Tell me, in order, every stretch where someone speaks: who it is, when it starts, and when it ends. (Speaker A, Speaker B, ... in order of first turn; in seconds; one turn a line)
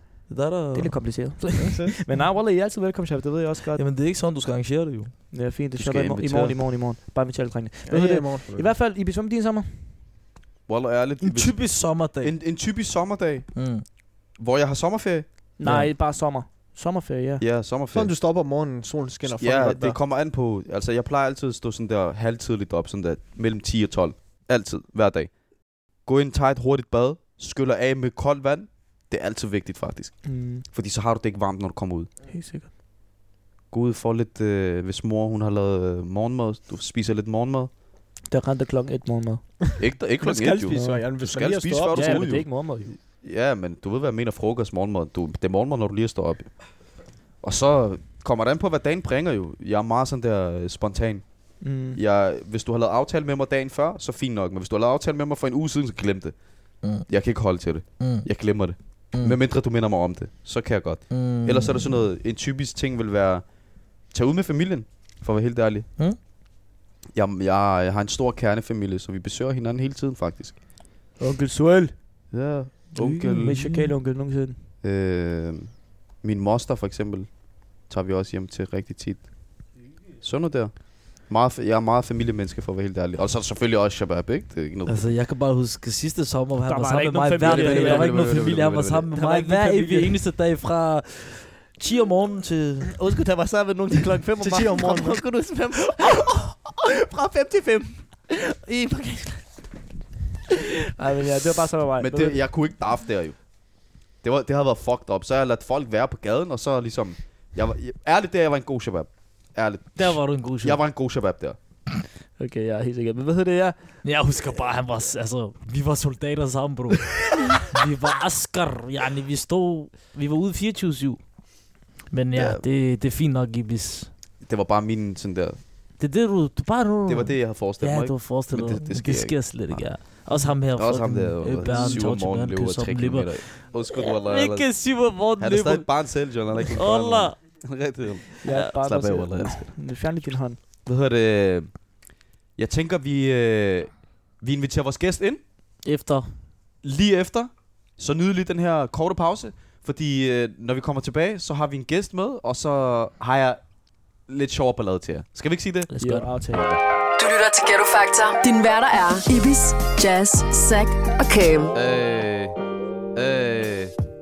Speaker A: 0.3-1.5
Speaker B: 0.7-3.8
Speaker C: 1.6-1.9
Speaker A: 3.8-5.1
Speaker B: 5.3-9.8
Speaker D: 5.8-6.6
Speaker C: 7.9-8.7
Speaker D: 10.7-13.6
Speaker A: 11.2-12.4
Speaker A: 13.6-13.8
Speaker D: 14.3-15.3
Speaker B: 15.6-17.4
Speaker A: 15.6-15.9
Speaker D: 17.4-18.2
Speaker C: 17.9-20.0
Speaker D: 19.2-32.1
Speaker B: 30.2-30.6
Speaker B: 32.3-32.7
Speaker D: 33.7-37.7
Speaker B: 38.3-39.7
Speaker D: 39.8-46.6
Speaker C: 40.2-42.4
Speaker B: 40.7-41.1
Speaker B: 41.9-43.0
Speaker D: 47.4-56.4
Speaker B: 51.6-52.0
Speaker D: 57.0-65.9
Speaker A: 58.0-58.3
Speaker A: 59.1-59.4
Speaker A: 61.1-62.0
Speaker D: 67.1-70.6
Speaker B: 71.2-72.0
Speaker D: 72.3-73.6
Speaker A: 73.0-73.9
Speaker B: 73.3-74.6
Speaker D: 74.8-79.3
Speaker D: 80.2-85.1
Speaker A: 84.9-93.0
Speaker B: 86.7-88.3
Speaker D: 87.4-89.1
Speaker B: 89.1-90.2
Speaker B: 92.9-99.5
Speaker C: 94.4-95.2
Speaker B: 100.9-102.4
Speaker D: 102.0-103.4
Speaker D: 104.2-111.6
Speaker A: 110.0-110.8
Speaker B: 112.4-113.8
Speaker A: 114.0-121.3
Speaker A: 122.1-124.1
Speaker D: 122.3-122.6
Speaker D: 124.4-125.6
Speaker A: 126.0-137.4
Speaker D: 127.1-130.0
Speaker D: 130.8-139.7
Speaker B: 131.7-132.0
Speaker B: 138.4-140.6
Speaker A: 138.5-138.7
Speaker D: 140.8-141.8
Speaker D: 142.6-145.4
Speaker A: 145.8-146.3
Speaker D: 146.8-153.7
Speaker D: 154.2-155.9
Speaker A: 155.9-156.3
Speaker B: 156.0-156.7
Speaker D: 156.5-156.8
Speaker E: 157.2-161.7
Speaker D: 161.7-162.6
Speaker D: 163.1-163.9